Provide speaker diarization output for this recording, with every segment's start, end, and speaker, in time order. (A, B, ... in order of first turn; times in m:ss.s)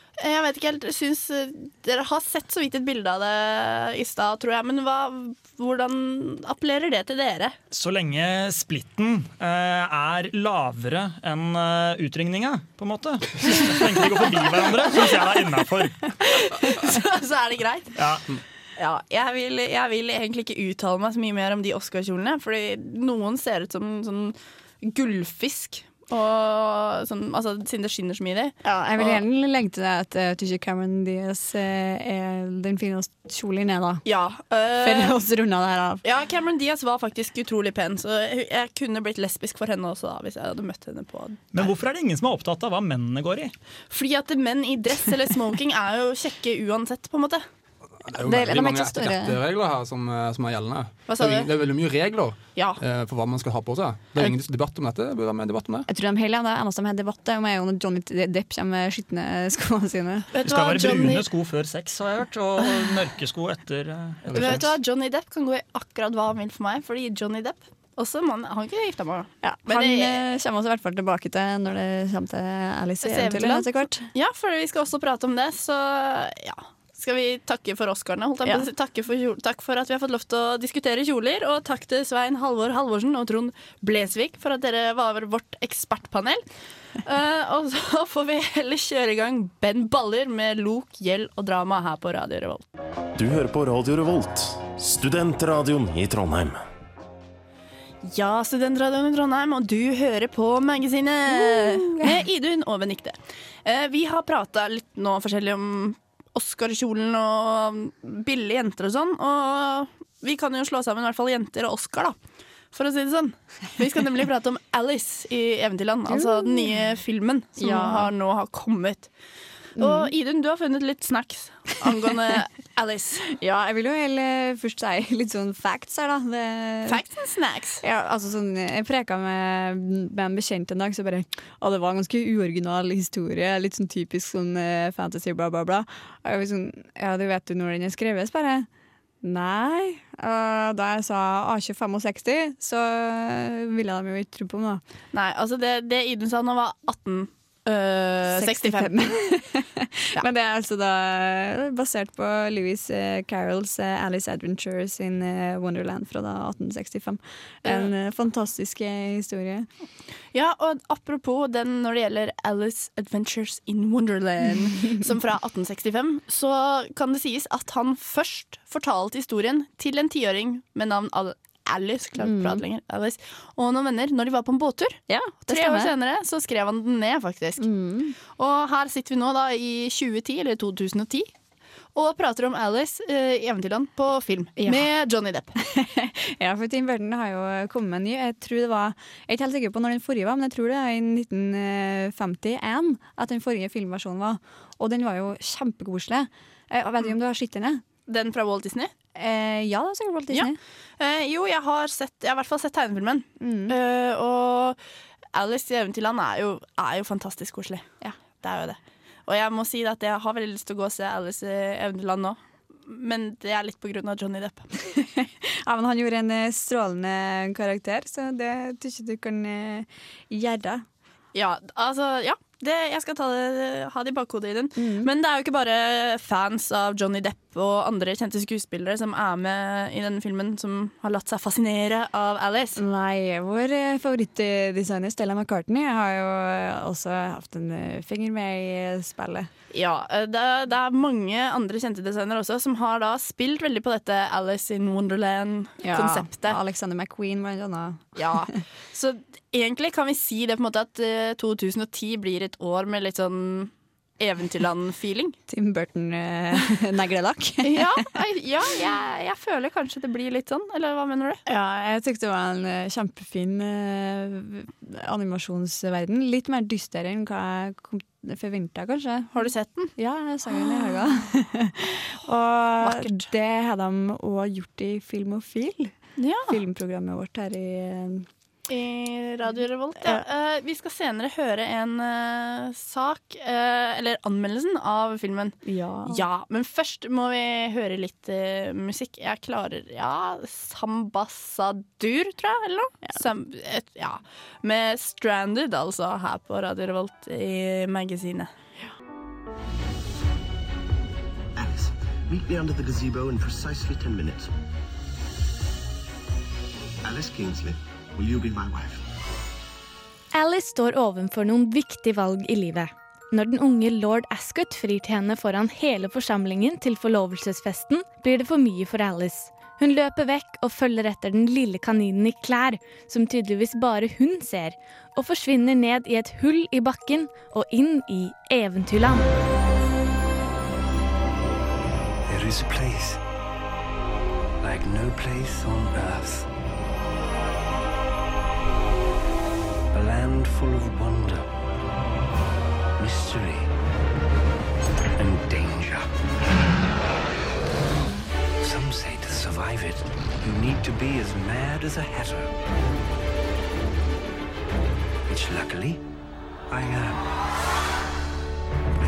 0:00.2-0:07.6 A
0:07.7-0:16.1 B
0:16.2-0:17.9 A
0:17.9-0:18.2 B
0:18.8-0:29.2 A
0:28.6-0:34.0 C
0:34.0-0:35.2 A
0:34.8-0:36.0 C
0:36.0-0:41.7 A
0:41.5-0:43.5 B
0:43.9-0:47.4 A
0:48.1-0:55.8 D
0:48.2-0:49.4 C
0:51.1-0:51.5 A
0:52.6-0:52.8 A
0:55.9-1:00.3 C
1:00.3-1:01.2 A
1:00.4-1:04.4 B
1:04.2-1:04.7 D
1:04.3-1:10.2 A
1:09.4-1:14.1 C
1:13.0-1:26.4 A
1:18.4-1:18.7 C
1:27.0-1:32.6 A
1:33.2-1:36.6 E
1:38.0-1:52.2 A
1:41.3-1:42.2 C
1:52.7-1:59.1 A
1:56.1-1:56.7 C
1:57.6-1:58.1 C
1:59.8-2:03.4 A
1:59.8-2:00.1 C
2:03.4-2:07.0 C
2:06.8-2:07.8 A
2:07.8-2:18.7 C
2:19.2-2:24.8 C
2:25.1-2:29.1 A
2:28.3-2:39.7 C
2:37.6-2:37.9 A
2:40.3-2:57.6 A
2:52.2-2:52.6 C
2:55.1-2:55.9 C
2:57.6-2:58.2 C
2:58.4-3:01.3 A
3:01.9-3:05.6 A
3:04.6-3:04.9 C
3:05.6-3:17.8 C
3:18.1-3:18.9 A
3:19.1-3:20.6 C
3:20.3-3:24.8 A
3:23.4-3:23.8 C
3:25.3-3:34.7 A
3:34.9-3:40.8 C
3:41.3-3:52.8 A
3:44.8-3:45.1 C
3:52.8-3:59.5 C
3:59.7-4:06.6 A
4:05.8-4:08.5 C
4:08.2-4:15.4 A
4:15.5-4:18.0 C
4:17.6-4:21.4 A
4:21.4-4:35.9 C
4:29.3-4:29.9 A
4:30.5-4:31.0 A
4:32.8-4:33.2 A
4:36.2-4:36.6 A
4:36.5-4:38.3 C
4:38.7-4:58.5 A
4:45.6-4:46.2 C
5:01.5-5:04.5 F
5:07.0-5:09.0 F
5:10.3-5:29.3 G
5:32.3-5:33.2 H
5:34.6-5:36.5 H
5:39.9-5:41.5 H
5:43.0-5:43.7 H
5:45.2-5:46.1 H
5:48.6-5:52.5 H
5:55.3-5:56.0 H
5:56.7-5:57.2 H